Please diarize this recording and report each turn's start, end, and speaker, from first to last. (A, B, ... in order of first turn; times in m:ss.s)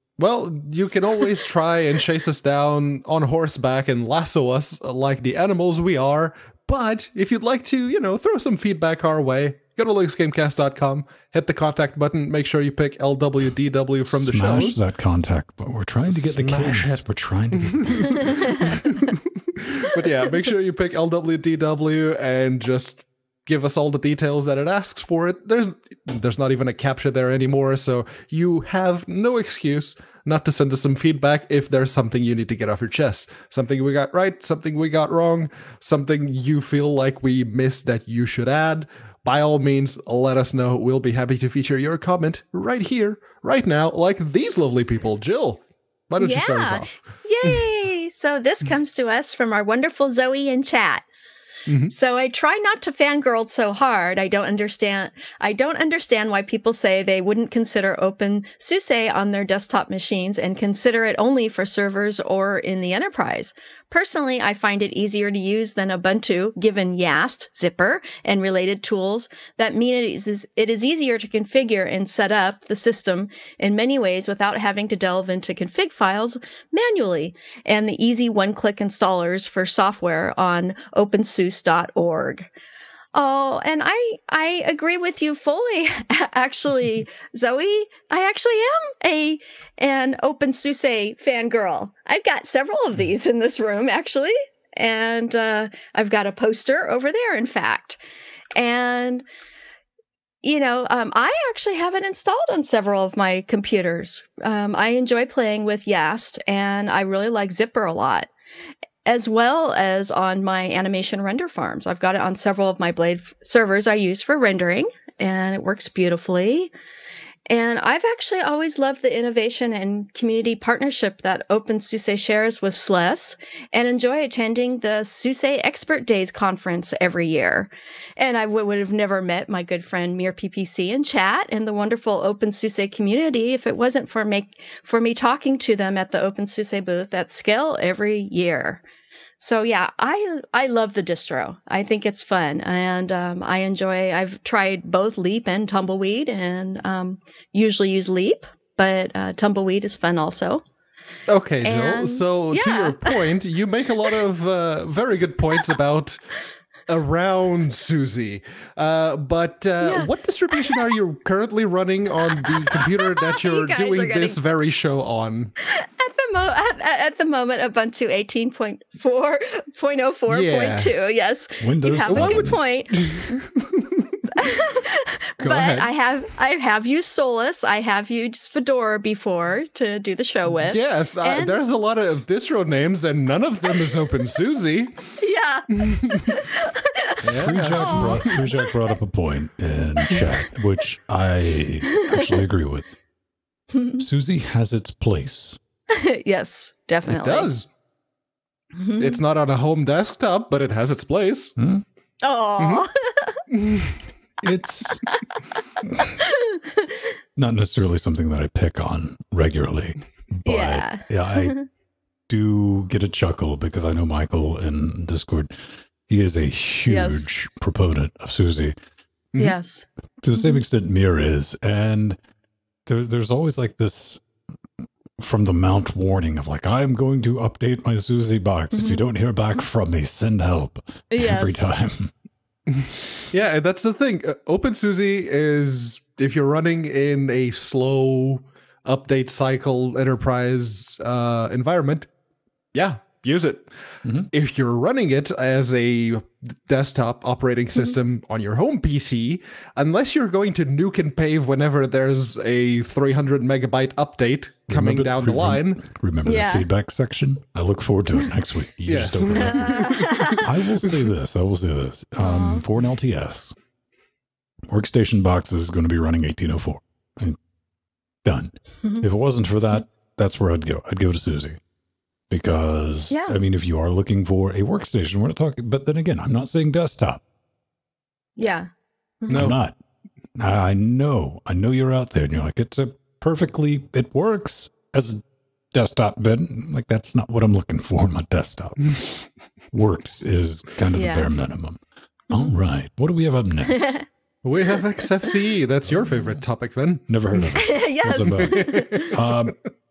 0:00.2-0:14.8 A
0:14.1-0:18.5 B
0:16.1-0:17.0 A
0:17.5-0:46.9 A
0:46.2-0:51.1 C
0:51.7-0:51.9 A
0:51.9-1:22.5 C
1:23.1-1:38.0 C
1:38.6-1:39.2 C
1:40.4-1:48.3 C
1:49.0-1:56.7 C
1:57.5-2:18.8 C
2:19.4-2:30.6 C
2:31.3-2:36.2 A
2:31.6-2:33.2 C
2:36.9-2:45.5 A
2:39.8-2:40.1 C
2:42.2-2:44.4 C
2:45.6-2:53.3 C
2:50.3-2:51.1 A
2:51.6-2:52.6 B
2:52.0-2:54.1 A
2:54.3-3:01.6 C
2:55.4-2:55.9 A
3:00.6-3:05.0 A
3:05.2-3:07.2 C
3:05.7-3:06.4 A
3:07.2-3:08.4 A
3:07.4-3:12.9 B
3:07.7-3:08.7 C
3:11.9-3:12.2 C
3:13.7-3:14.0 C
3:14.0-3:15.6 B
3:15.9-3:17.5 C
3:17.1-3:17.7 A
3:18.8-3:19.2 C
3:19.0-3:21.5 A
3:21.6-3:21.8 B
3:22.2-3:23.4 C
3:22.6-3:22.9 A
3:23.5-3:24.0 A
3:24.4-3:25.0 B
3:25.1-3:25.4 C
3:25.8-3:26.2 B
3:26.2-3:27.1 C
3:27.4-3:31.6 B
3:30.4-3:31.7 C
3:32.3-3:35.5 B
3:36.1-3:38.8 B
3:36.9-3:37.3 C
3:39.4-3:40.6 C
3:40.2-3:42.2 B
3:42.9-3:44.2 B
3:45.2-3:52.1 B
3:48.7-3:49.0 C
3:51.1-3:51.7 C
3:52.7-4:02.1 A
4:02.7-4:03.7 A
4:04.0-4:04.3 B
4:04.3-4:15.8 A
4:14.7-4:23.6 B
4:16.3-4:16.7 C
4:18.9-4:20.9 A
4:19.5-4:20.4 C
4:22.2-4:22.6 C
4:24.7-4:27.4 B
4:28.2-4:31.6 B
4:32.3-4:37.2 B
4:33.1-4:33.4 C
4:38.4-4:38.7 C
4:39.2-4:39.5 C
4:39.3-4:39.8 B
4:39.3-4:39.6 A
4:40.4-4:54.0 B
4:50.9-4:51.3 C
4:53.7-4:54.0 C
4:54.4-4:57.4 A
4:56.0-4:56.4 B
4:57.1-4:59.6 B
4:57.6-4:59.1 C
4:58.2-4:59.2 A